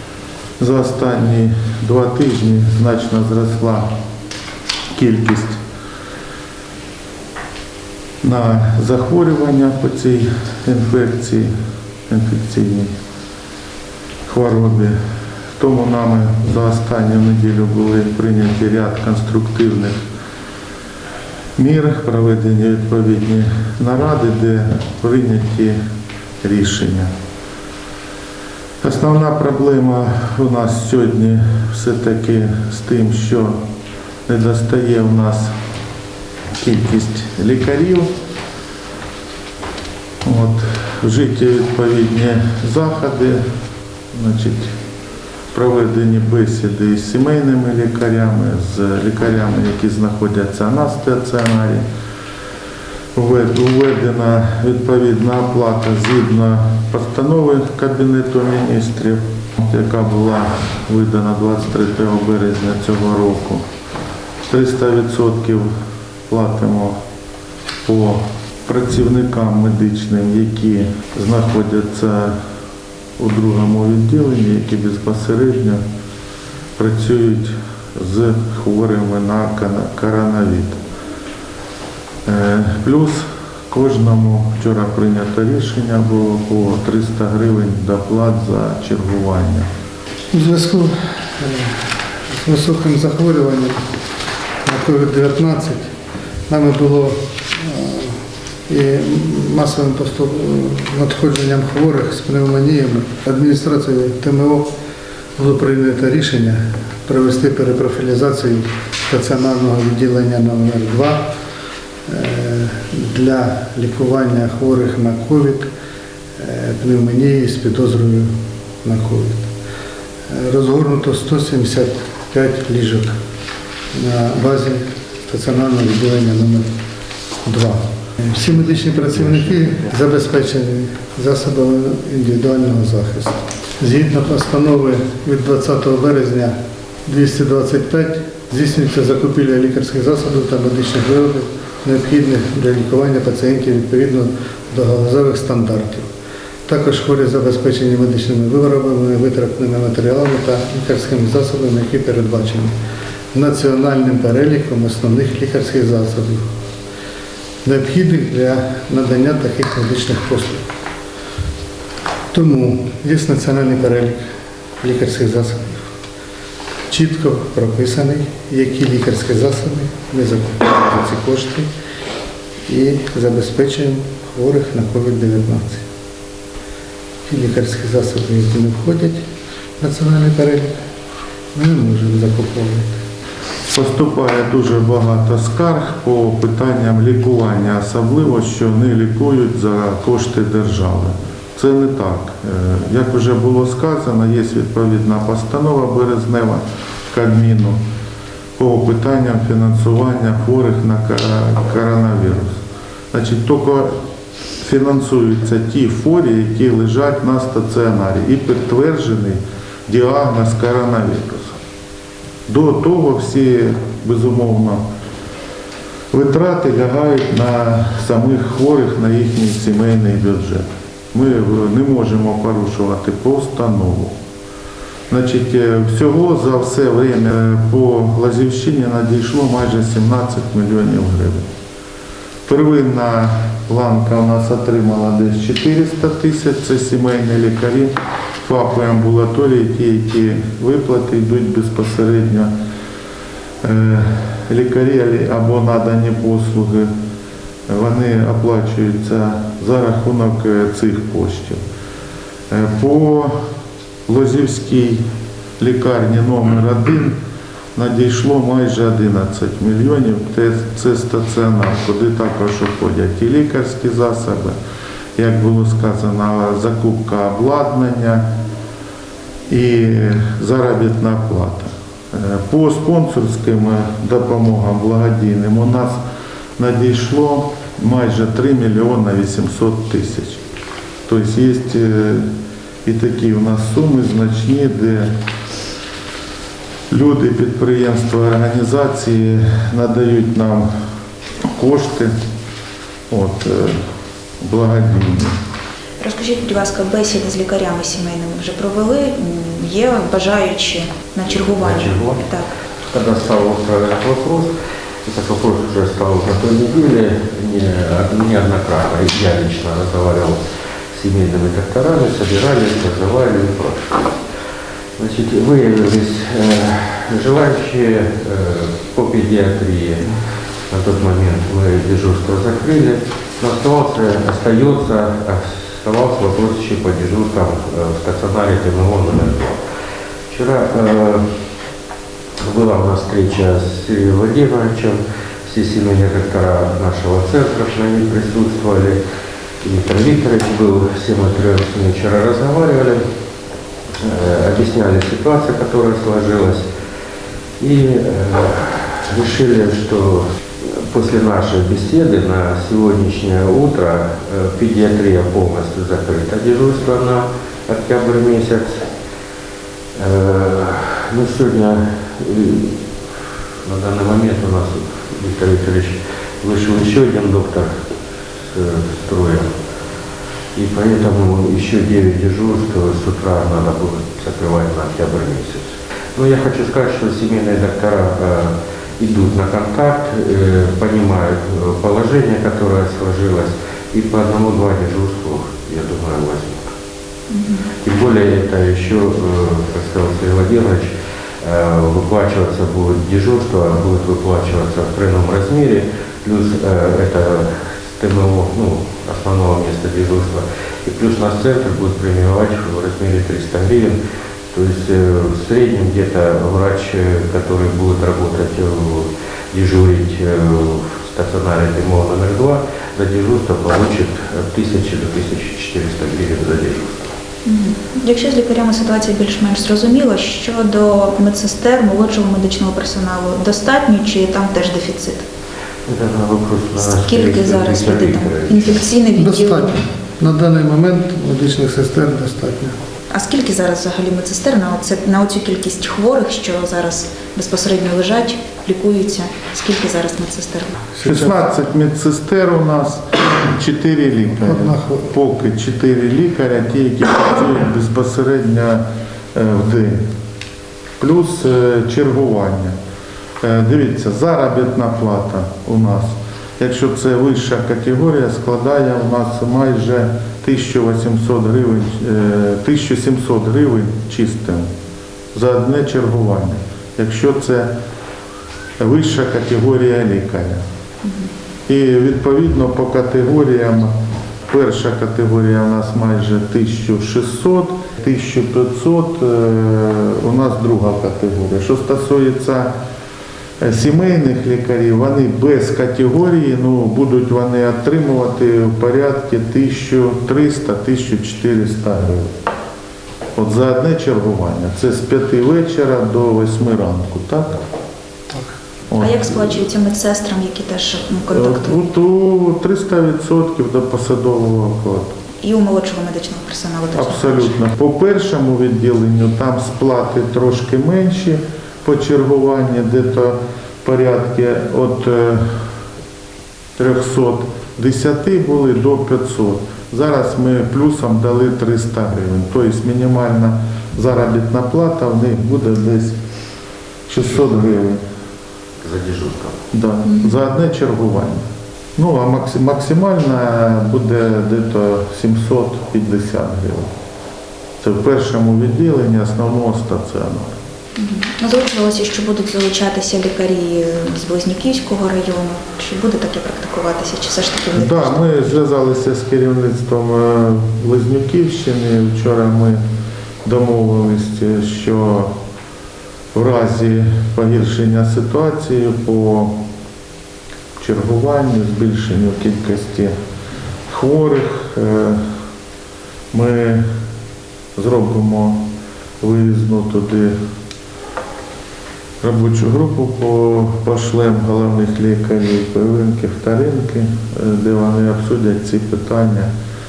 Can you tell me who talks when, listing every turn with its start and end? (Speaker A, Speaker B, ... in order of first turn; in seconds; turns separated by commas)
Speaker A: 0.6-3.9, Speaker A: 4.9-5.6, Speaker A: 8.2-11.5, Speaker A: 12.1-12.9, Speaker A: 14.2-14.9, Speaker A: 15.6-20.0, Speaker A: 21.6-25.8, Speaker A: 26.4-27.1, Speaker A: 28.8-33.6, Speaker A: 34.3-35.5, Speaker A: 36.6-38.1, Speaker A: 40.2-43.4, Speaker A: 44.1-44.7, Speaker A: 45.5-51.8, Speaker A: 53.1-63.6, Speaker A: 64.5-65.7, Speaker A: 66.3-67.0, Speaker A: 67.8-72.4, Speaker A: 73.2-75.8, Speaker A: 76.8-80.8, Speaker A: 82.2-89.7, Speaker B: 90.3-91.8, Speaker B: 92.3-93.8, Speaker B: 94.6-95.9, Speaker B: 96.5-104.7, Speaker B: 105.3-111.2, Speaker B: 112.0-115.7, Speaker B: 116.4-118.3, Speaker B: 118.8-119.5, Speaker B: 120.3-123.1, Speaker B: 123.9-126.7, Speaker B: 127.4-136.5, Speaker B: 137.1-146.1, Speaker B: 146.7-152.7, Speaker B: 153.3-156.4, Speaker B: 157.6-160.6, Speaker B: 162.3-164.2, Speaker B: 164.8-165.8, Speaker B: 166.9-171.7, Speaker B: 172.7-175.8, Speaker B: 177.2-179.2, Speaker B: 179.8-180.7, Speaker B: 181.5-183.0, Speaker A: 183.7-197.8, Speaker A: 198.6-202.6, Speaker A: 203.1-203.9, Speaker A: 204.6-211.6, Speaker A: 212.5-214.8, Speaker A: 216.1-224.1, Speaker A: 225.1-231.5, Speaker A: 232.5-242.5, Speaker A: 243.6-246.9, Speaker A: 247.7-251.6, Speaker A: 252.5-253.4, Speaker A: 254.1-255.0, Speaker A: 255.6-257.2, Speaker A: 257.7-264.6, Speaker A: 265.1-268.2, Speaker A: 269.5-276.0, Speaker A: 276.6-280.4, Speaker A: 281.1-282.3, Speaker A: 282.8-285.1, Speaker A: 286.9-290.7, Speaker A: 291.5-292.1, Speaker A: 293.1-293.8, Speaker A: 294.4-295.4, Speaker C: 296.0-302.5, Speaker D: 301.3-302.2, Speaker D: 302.9-304.5, Speaker D: 305.0-310.4, Speaker D: 310.9-314.1, Speaker D: 315.0-320.2, Speaker D: 320.7-329.6, Speaker D: 330.3-331.2, Speaker D: 332.4-339.0, Speaker D: 339.6-343.0, Speaker D: 344.0-346.7, Speaker D: 347.6-358.9, Speaker D: 359.9-362.8, Speaker D: 363.6-367.8, Speaker D: 368.4-369.5, Speaker D: 370.5-386.7, Speaker C: 387.3-387.7, Speaker D: 387.8-404.0, Speaker D: 404.5-417.1, Speaker C: 417.4-425.2, Speaker D: 425.9-428.9, Speaker C: 426.8-429.7, Speaker B: 429.1-432.8, Speaker C: 433.1-440.8, Speaker B: 440.9-441.4, Speaker A: 441.0-450.0, Speaker B: 444.4-445.1, Speaker A: 451.0-452.8, Speaker A: 453.4-464.7, Speaker A: 465.3-467.7, Speaker A: 468.8-470.6, Speaker C: 471.0-471.3, Speaker A: 471.7-473.9, Speaker A: 474.5-482.7, Speaker A: 483.6-492.3, Speaker A: 493.4-497.6, Speaker A: 498.9-499.5, Speaker C: 499.0-501.8, Speaker A: 501.3-505.1, Speaker C: 505.4-507.6, Speaker A: 506.9-515.5, Speaker A: 516.8-526.2, Speaker A: 527.1-528.0, Speaker D: 528.8-529.6, Speaker A: 529.7-531.4, Speaker A: 532.0-536.9, Speaker A: 537.8-540.5, Speaker C: 541.0-548.1, Speaker A: 547.7-552.8, Speaker A: 553.4-555.3, Speaker A: 556.3-559.5, Speaker A: 560.8-563.1, Speaker A: 563.9-565.2, Speaker A: 566.3-566.8, Speaker A: 567.8-568.6, Speaker A: 569.2-570.3, Speaker A: 572.2-579.5